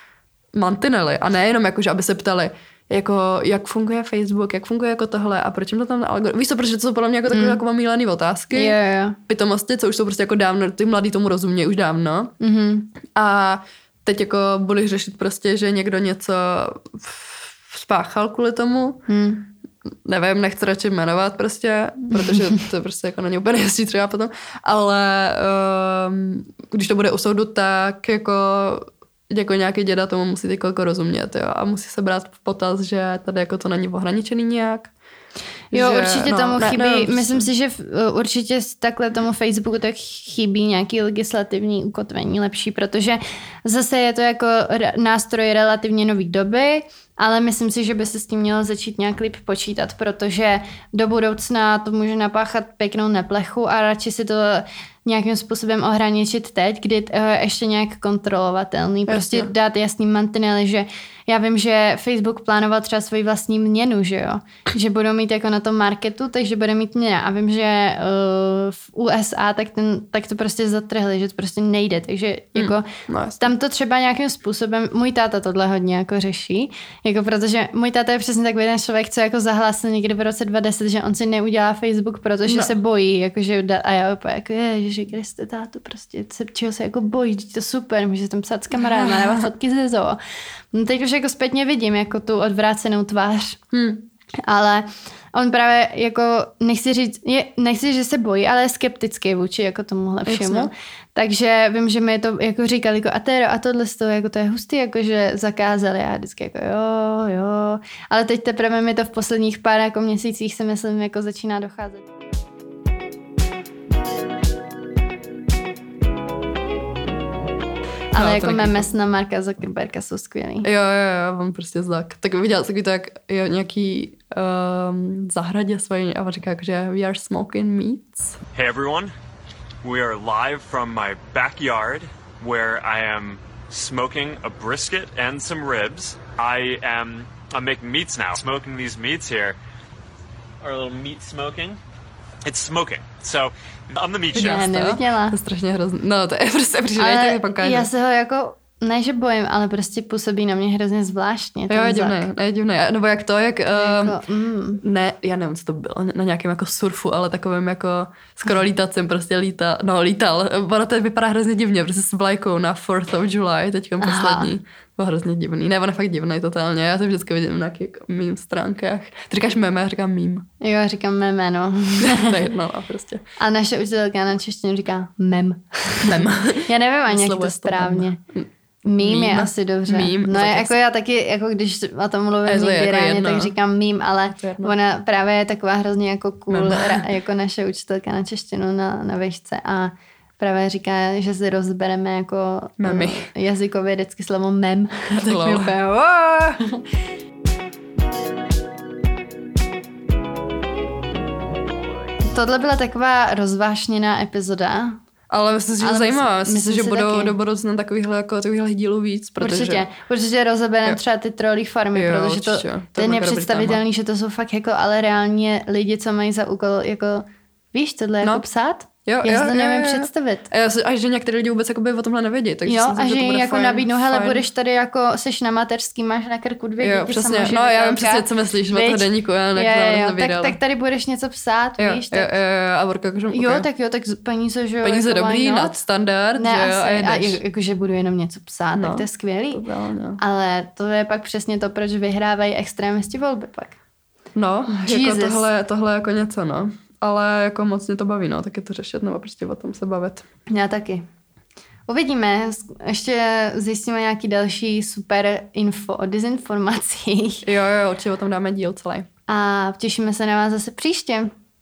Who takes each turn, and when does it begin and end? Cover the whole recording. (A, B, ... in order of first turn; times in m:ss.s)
0:00.6-0:08.8 A
0:07.3-0:07.6 B
0:08.5-0:09.2 B
0:09.3-0:12.3 A
0:12.4-0:12.9 B
0:13.2-0:19.0 A
0:19.1-0:19.5 B
0:20.1-0:34.9 A
0:35.7-1:12.9 B
0:35.7-0:37.5 A
0:59.1-0:59.5 A
1:12.6-1:13.5 A
1:13.4-1:30.2 B
1:22.5-1:22.7 A
1:28.8-1:29.4 A
1:30.7-1:33.6 B
1:33.7-1:34.0 A
1:34.5-1:52.1 B
1:40.3-1:40.7 A
1:58.1-2:00.7 B
1:58.2-1:58.9 A
2:00.6-2:08.4 A
2:08.5-2:09.1 C
2:09.8-2:19.6 C
2:20.6-2:21.8 C
2:22.4-2:24.7 C
2:24.3-2:25.4 B
2:24.3-2:27.9 A
2:27.0-2:32.3 B
2:31.7-2:34.2 A
2:33.8-2:34.8 B
2:34.8-2:50.5 A
2:44.0-2:44.5 B
2:50.6-2:52.4 B
2:52.0-2:53.2 A
2:53.4-2:58.2 B
2:56.0-3:00.7 A
2:58.9-3:16.8 B
3:02.5-3:03.5 A
3:04.4-3:04.7 A
3:06.5-3:07.0 A
3:12.8-3:13.3 A
3:15.2-3:15.7 A
3:22.3-3:25.0 B
3:25.3-3:29.9 A
3:25.8-3:27.3 B
3:29.4-3:40.5 B
3:31.9-3:33.8 A
3:39.1-3:44.4 A
3:42.7-3:52.4 B
3:46.8-3:50.6 A
3:51.8-3:53.7 A
3:53.3-3:55.8 B
3:54.8-3:57.4 A
3:56.4-3:59.6 B
3:58.8-4:00.2 A
4:00.2-4:03.8 B
4:04.4-4:10.3 A
4:04.7-4:05.5 B
4:10.5-4:11.1 B
4:11.9-4:17.4 B
4:17.4-4:19.1 A
4:19.3-4:21.3 B